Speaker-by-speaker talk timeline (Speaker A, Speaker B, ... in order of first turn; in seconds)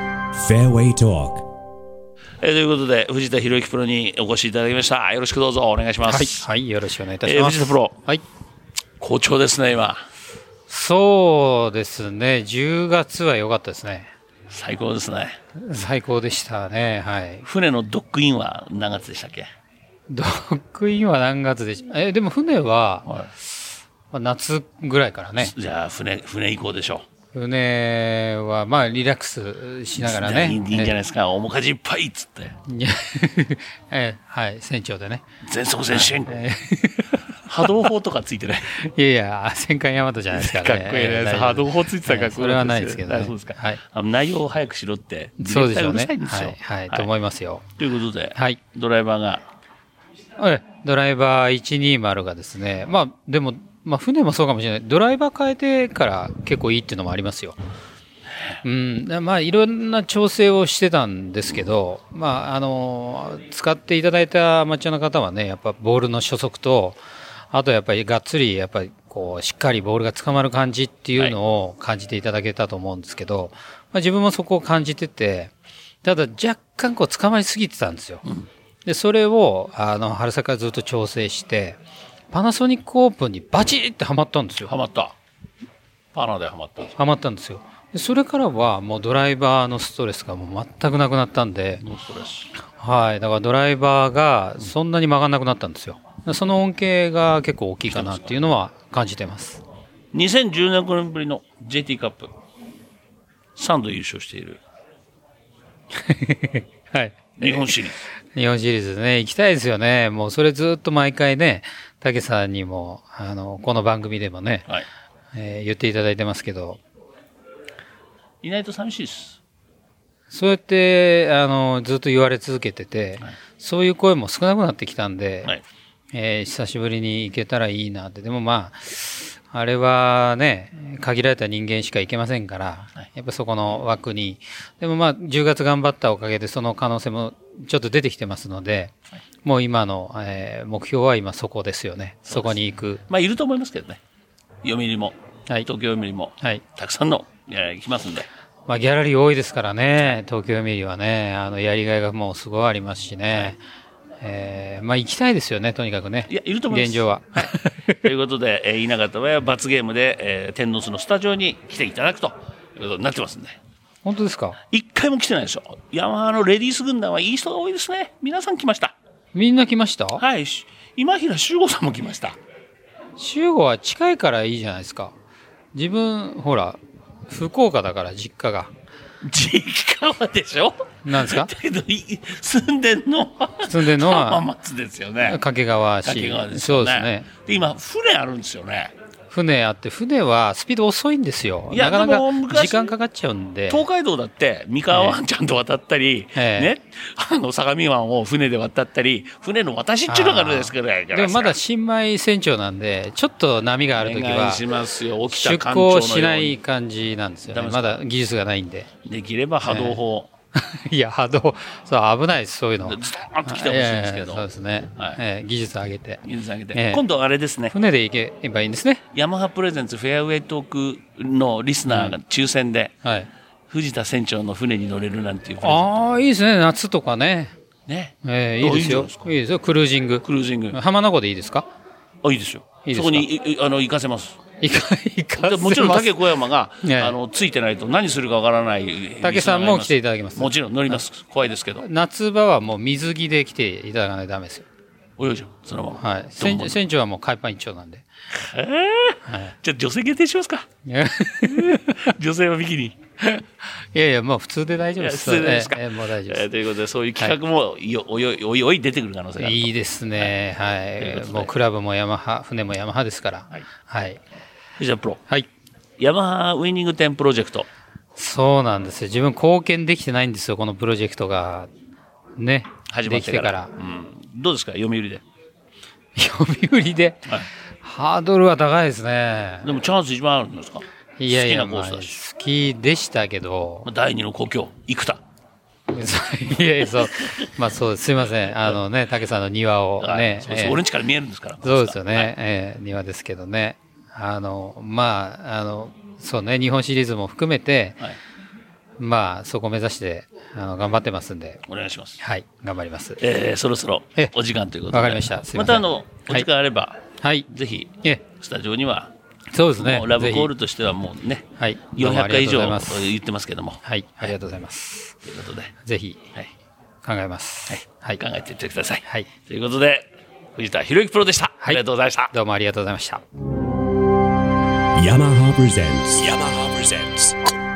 Speaker A: 0.3-1.4, 325.0-327.4
Speaker B: 2.4-6.5, 7.2-8.0, 9.0-10.0, 14.5-15.4, 17.4-19.5, 25.4-27.1, 30.0-32.5, 35.4-36.4, 37.4-38.7, 40.3-47.1, 47.8-49.4, 84.7-85.1, 86.1-87.0, 91.8-92.5, 97.9-98.3, 100.1-102.3, 103.6-104.6, 107.4-108.0, 118.4-119.4, 142.3-142.6, 143.1-144.0, 144.6-148.3, 156.3-163.6, 164.7-168.9, 170.2-172.4, 179.2-185.4, 186.1-188.9, 191.7-192.9, 193.7-201.6, 204.0-206.6, 207.5-208.0, 209.0-210.3, 212.8-214.4, 216.2-217.7, 219.1-222.9, 223.7-226.0, 227.9-229.3, 230.2-230.8, 232.2-234.4, 235.4-241.8, 245.2-246.8, 248.4-250.7, 251.4-253.0, 255.0-260.3, 261.0-261.5, 264.8-265.2, 266.0-267.7, 272.9-275.2, 279.6-282.2, 283.9-285.2, 290.0-292.3, 301.7-302.2, 303.2-309.1, 309.8-313.8, 315.2-315.7, 317.7-322.3
Speaker C: 6.0-8.2, 10.7-14.1, 15.6-17.4, 20.1-23.1, 24.1-25.5, 27.3-30.9, 32.7-35.3, 35.9-37.9, 38.7-43.8, 45.4-47.7, 48.4-48.6, 50.4-57.6, 58.6-67.0, 67.5-75.5, 76.0-78.2, 78.8-81.8, 82.3-84.8, 87.0-91.8, 92.7-99.6, 106.0-107.8, 108.3-114.7, 115.3-116.8, 120.3-125.5, 126.1-138.9, 139.4-143.0, 148.7-153.6, 154.2-158.1, 164.0-164.6, 169.3-170.2, 173.2-175.1, 175.7-178.7, 181.0-181.5, 183.6-184.5, 185.2-187.3, 189.3-193.9, 194.9-195.2, 196.3-196.7, 200.1-204.6, 205.3-208.9, 209.7-210.0, 210.6-216.2, 216.7-217.0, 217.7-219.0, 221.9-222.2, 223.0-223.3, 225.6-227.5, 228.2-231.7, 232.8-233.3, 234.6-236.3, 236.8-237.2, 239.2-241.0, 241.8-244.7, 246.0-248.1, 249.3-249.6, 250.9-252.1, 253.9-256.5, 259.4-264.2, 268.1-271.7, 272.4-273.7, 276.1-279.8, 281.2-283.9, 285.9-290.8, 291.6-298.0, 299.0-301.6, 302.2-303.2, 304.9-306.5, 307.2-307.5, 309.5-310.5, 311.6-313.1, 313.8-315.1, 315.8-316.2, 317.0-318.2, 321.6-323.2